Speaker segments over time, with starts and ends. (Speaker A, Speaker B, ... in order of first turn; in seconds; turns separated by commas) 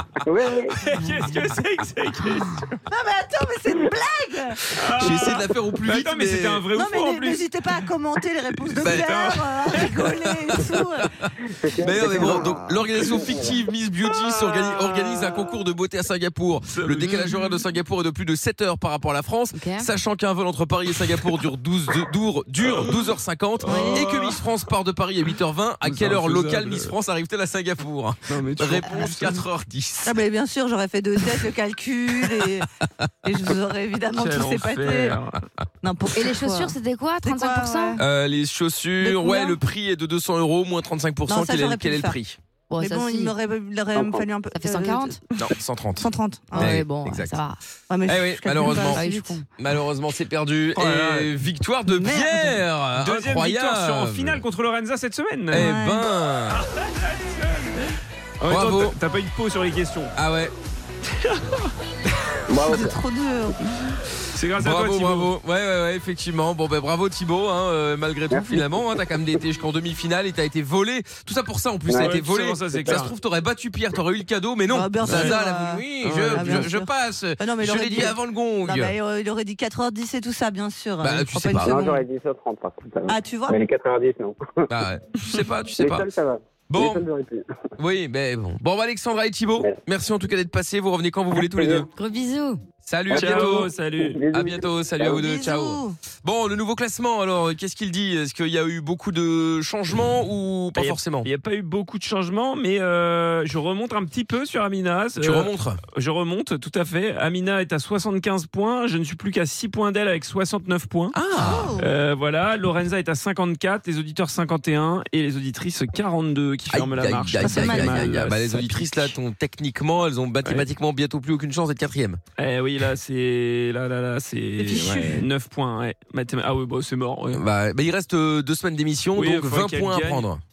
Speaker A: 0.2-0.8, Speaker B: 0.5-2.8, Speaker C: 2.9-5.4, Speaker B: 4.7-7.8, Speaker D: 5.0-6.6, Speaker C: 6.8-11.1, Speaker B: 8.6-10.5, Speaker D: 8.8-9.1, Speaker D: 10.5-11.3, Speaker A: 11.5-13.6, Speaker D: 11.8-30.2, Speaker C: 11.9-12.8, Speaker B: 13.0-13.4, Speaker B: 14.3-15.2, Speaker B: 16.7-17.6, Speaker E: 19.5-19.9, Speaker B: 22.7-23.1, Speaker B: 23.6-24.4, Speaker C: 23.6-24.0, Speaker B: 25.8-26.9, Speaker B: 28.3-29.4, Speaker C: 30.0-32.7, Speaker C: 33.2-35.2, Speaker B: 34.1-35.4, Speaker C: 35.8-38.0, Speaker E: 36.1-38.0, Speaker D: 38.0-42.4, Speaker C: 39.0-39.6, Speaker C: 41.3-42.2, Speaker E: 42.7-43.4, Speaker C: 42.8-46.8, Speaker A: 44.0-44.3, Speaker E: 44.5-45.2, Speaker D: 45.4-47.4, Speaker E: 46.5-47.6, Speaker C: 47.9-49.4, Speaker D: 48.0-49.1, Speaker E: 48.6-49.5, Speaker D: 49.6-54.4, Speaker B: 50.8-51.4, Speaker C: 51.9-52.6, Speaker B: 53.0-55.7, Speaker D: 55.5-56.6, Speaker C: 55.5-56.1, Speaker B: 56.6-60.1, Speaker D: 58.5-59.0, Speaker D: 60.1-60.5, Speaker B: 61.2-61.7, Speaker A: 62.5-63.0, Speaker C: 62.6-63.5, Speaker B: 64.3-65.3, Speaker D: 64.6-79.0, Speaker A: 68.3-68.6, Speaker A: 71.9-72.1, Speaker B: 71.9-73.1, Speaker C: 74.7-82.1, Speaker B: 75.0-75.4, Speaker B: 76.0-76.7, Speaker D: 81.0-81.8, Speaker A: 81.6-84.7, Speaker C: 83.1-83.6, Speaker D: 84.7-86.1, Speaker A: 85.8-87.4, Speaker D: 86.7-87.0, Speaker D: 87.8-91.9, Speaker A: 91.5-91.9, Speaker E: 92.0-92.6, Speaker D: 92.8-101.3, Speaker B: 93.1-94.3, Speaker A: 93.1-95.2, Speaker C: 95.1-96.0, Speaker B: 100.8-119.1, Speaker D: 105.2-105.8, Speaker D: 111.1-111.8, Speaker C: 111.5-111.9, Speaker D: 116.7-122.2, Speaker C: 117.4-117.9, Speaker B: 122.4-127.4, Speaker C: 124.6-125.2, Speaker D: 124.8-125.2, Speaker D: 127.3-130.4, Speaker B: 129.1-130.3